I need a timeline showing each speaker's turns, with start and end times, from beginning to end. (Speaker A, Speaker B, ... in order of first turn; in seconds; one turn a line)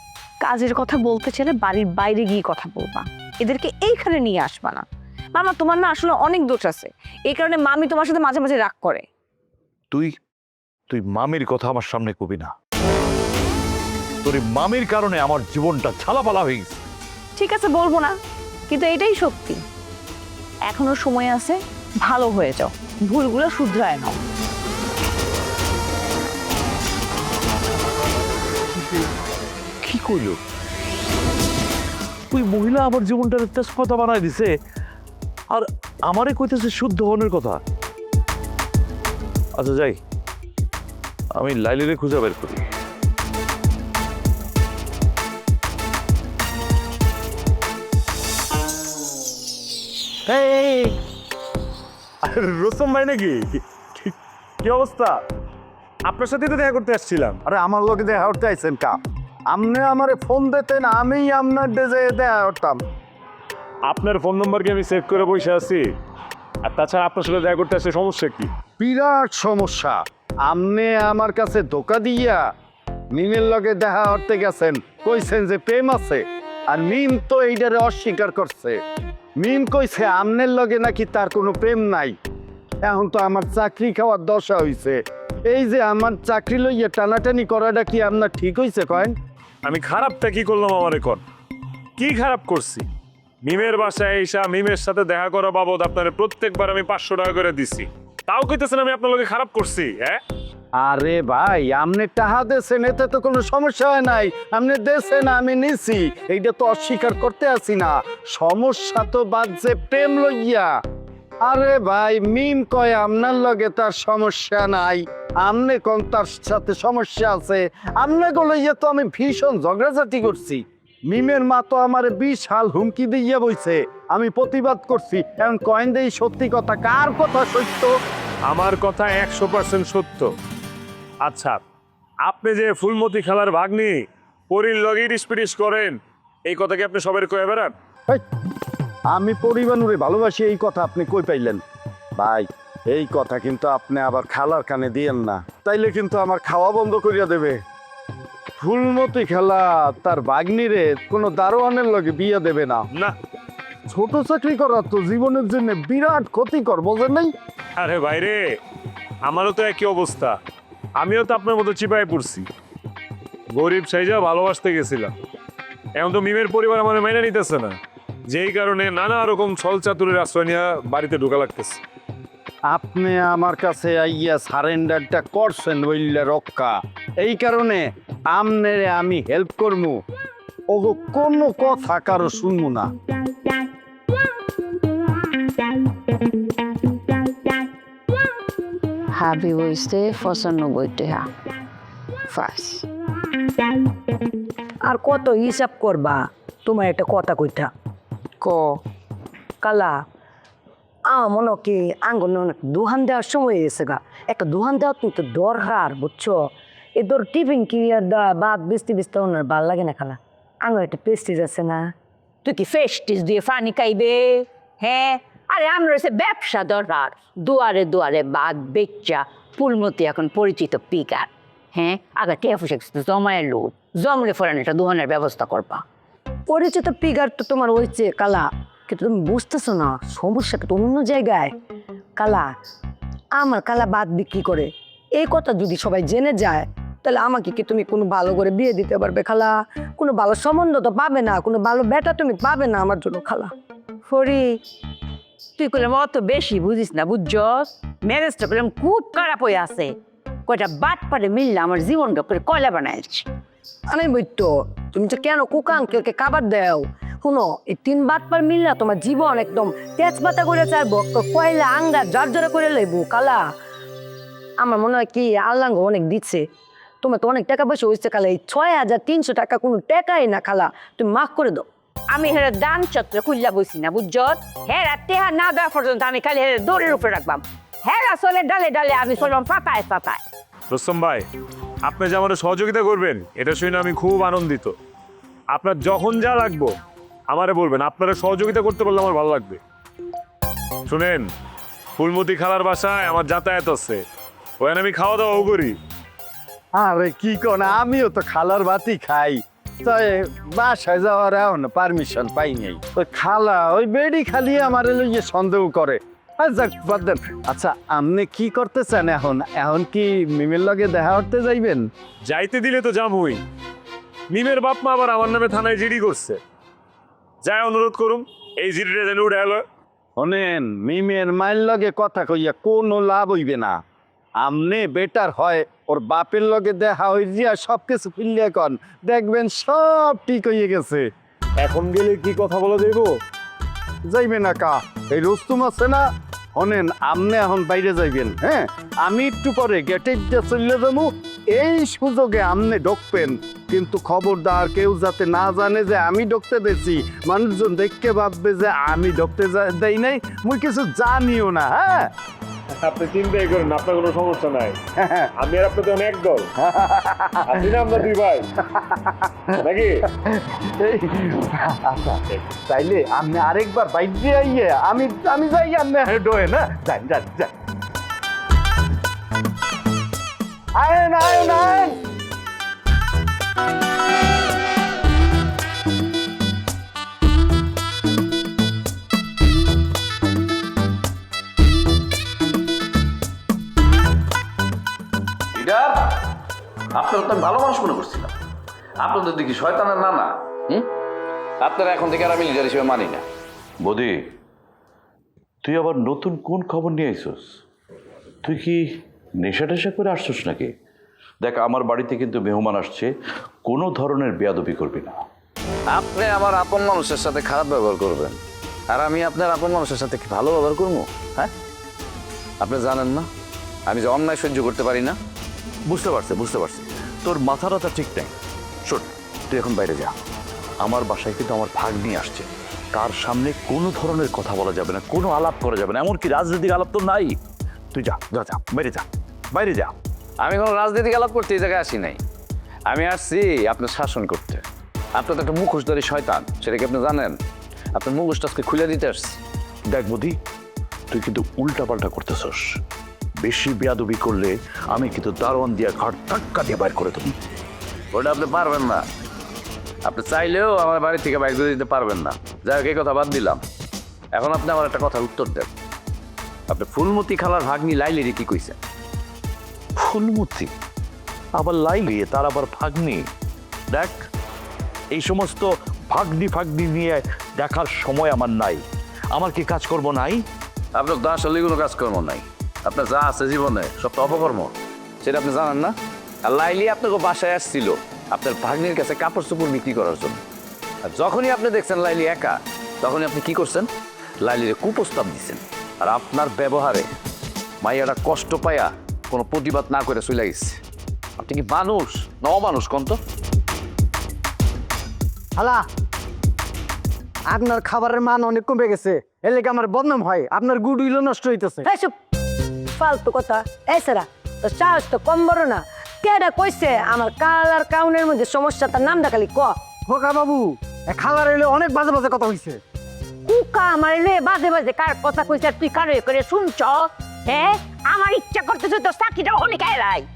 Speaker A: 0.4-9.1
Speaker B: 10.9-12.5
Speaker B: 14.2-16.8
Speaker A: 17.4-18.1
Speaker A: 18.7-19.6
Speaker C: 20.7-21.5
Speaker A: 20.7-24.1
Speaker C: 23.1-24.1
Speaker B: 29.8-30.4
Speaker B: 32.3-34.5
Speaker B: 35.5-37.6
Speaker B: 39.6-40.0
Speaker B: 41.4-42.6
Speaker D: 50.3-51.0
Speaker E: 52.3-55.2
Speaker E: 56.1-57.4
Speaker D: 57.5-59.0
Speaker D: 59.5-62.8
Speaker E: 63.9-65.9
Speaker E: 66.7-68.5
Speaker D: 68.8-72.5
Speaker D: 73.1-78.8
Speaker D: 79.4-82.2
Speaker D: 82.8-89.2
Speaker E: 89.7-91.2
Speaker E: 92.0-92.9
Speaker E: 93.5-100.2
Speaker D: 100.8-110.7
Speaker D: 111.5-128.0
Speaker E: 128.5-130.3
Speaker E: 131.2-131.6
Speaker E: 132.3-137.7
Speaker D: 139.1-141.6
Speaker D: 142.2-147.6
Speaker D: 148.6-152.9
Speaker D: 153.9-157.3
Speaker E: 157.8-158.4
Speaker E: 159.3-160.4
Speaker E: 161.0-162.5
Speaker E: 163.6-165.1
Speaker E: 166.0-167.8
Speaker E: 168.3-171.8
Speaker D: 172.7-180.0
Speaker D: 180.7-182.9
Speaker A: 189.2-191.2
Speaker A: 192.3-192.8
Speaker F: 194.8-197.7
Speaker A: 198.4-198.8
Speaker F: 199.6-200.0
Speaker F: 201.1-211.9
Speaker C: 212.4-225.8
Speaker F: 226.5-231.5
Speaker F: 232.2-232.5
Speaker F: 233.4-243.5
Speaker C: 244.1-244.6
Speaker C: 245.6-249.9
Speaker C: 250.5-253.3
Speaker F: 253.9-263.5
Speaker F: 264.6-266.5
Speaker F: 267.0-271.7
Speaker C: 272.1-280.2
Speaker E: 280.7-281.3
Speaker E: 281.9-284.7
Speaker E: 285.5-286.7
Speaker E: 287.3-289.6
Speaker E: 290.9-291.3
Speaker E: 292.0-294.0
Speaker E: 294.6-295.8
Speaker D: 296.8-311.9
Speaker E: 312.3-313.4
Speaker E: 314.3-316.4
Speaker E: 317.4-319.6
Speaker D: 320.2-323.8
Speaker D: 324.4-331.1
Speaker E: 331.6-333.1
Speaker D: 334.1-336.0
Speaker D: 336.6-352.1
Speaker E: 352.7-354.8
Speaker D: 355.0-355.3
Speaker E: 355.4-356.5
Speaker D: 356.6-357.6
Speaker E: 357.5-358.5
Speaker D: 358.6-359.5
Speaker E: 359.6-360.1
Speaker D: 360.1-367.5
Speaker D: 370.8-372.0
Speaker G: 385.5-386.2
Speaker G: 386.9-388.3
Speaker G: 389.0-390.9
Speaker G: 391.6-393.2
Speaker B: 393.8-394.3
Speaker B: 395.6-397.6
Speaker B: 398.4-398.8
Speaker B: 399.4-400.7
Speaker B: 401.4-403.1
Speaker B: 403.6-405.2
Speaker G: 405.9-408.4
Speaker G: 408.9-411.5
Speaker G: 412.6-413.3
Speaker G: 413.9-415.2
Speaker B: 415.9-418.3
Speaker B: 418.9-420.1
Speaker B: 420.8-427.4
Speaker B: 427.9-429.9
Speaker G: 430.4-432.2
Speaker G: 432.9-434.6
Speaker G: 435.1-437.4
Speaker G: 437.9-439.4
Speaker B: 439.9-440.4
Speaker B: 441.1-442.6
Speaker B: 443.4-447.4
Speaker G: 448.1-449.1
Speaker G: 450.1-453.6
Speaker G: 454.4-455.7
Speaker G: 456.7-458.8
Speaker B: 460.0-460.7
Speaker B: 461.6-463.2
Speaker B: 463.9-464.3
Speaker B: 465.1-470.4
Speaker G: 470.9-480.4
Speaker G: 481.1-483.9
Speaker G: 484.4-487.1
Speaker G: 487.8-490.8
Speaker G: 491.4-493.2
Speaker H: 495.6-495.9
Speaker H: 497.5-501.9
Speaker F: 501.9-502.1
Speaker F: 503.0-509.8
Speaker H: 510.1-512.8
Speaker C: 513.5-520.3